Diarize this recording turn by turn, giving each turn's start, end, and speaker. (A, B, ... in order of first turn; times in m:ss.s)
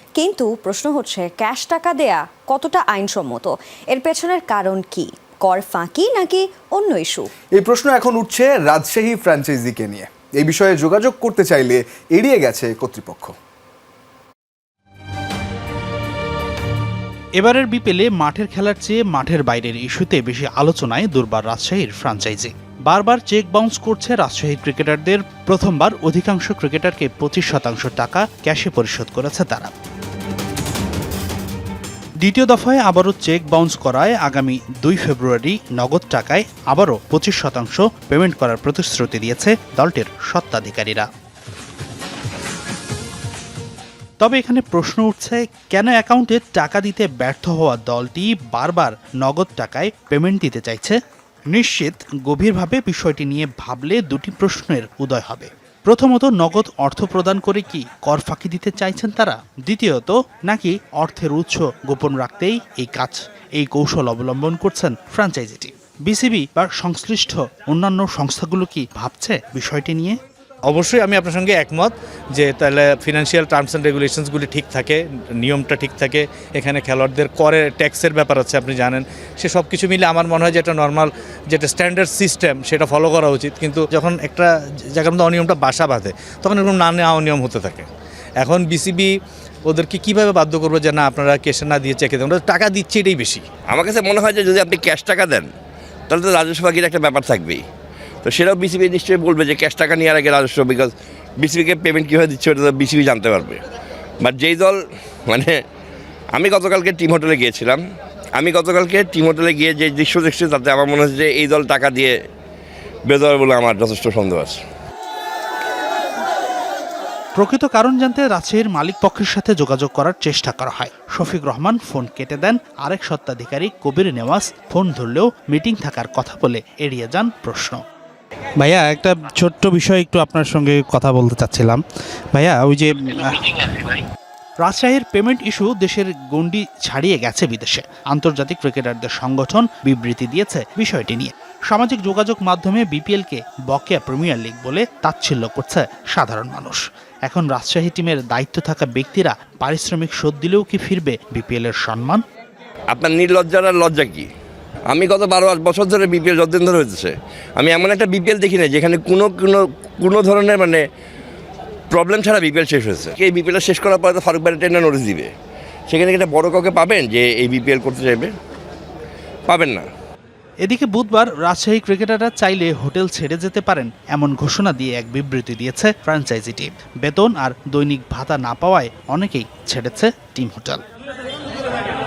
0:00.2-0:07.3 A
0:07.6-0:13.3 B
0:17.4-0:29.7 C
0:32.2-0:41.1 C
0:44.2-0:51.0 C
0:51.5-1:10.2 C
1:10.7-1:27.9 D
1:28.4-1:29.1 D
1:29.7-1:33.4 D
1:33.7-1:35.5 E
1:36.1-1:37.6 E
1:38.2-1:43.6 E
1:44.2-1:45.5 E
1:46.3-1:47.8 E
1:48.4-1:52.1 E
1:53.1-1:54.6 E
1:57.4-2:07.8 C
2:08.6-2:14.0 C
2:14.6-2:32.2 C
2:32.9-2:34.3 E
2:34.9-2:40.8 E
2:41.9-2:45.3 E
2:45.9-2:48.3 E
2:49.5-2:49.8 E
2:50.6-3:00.8 C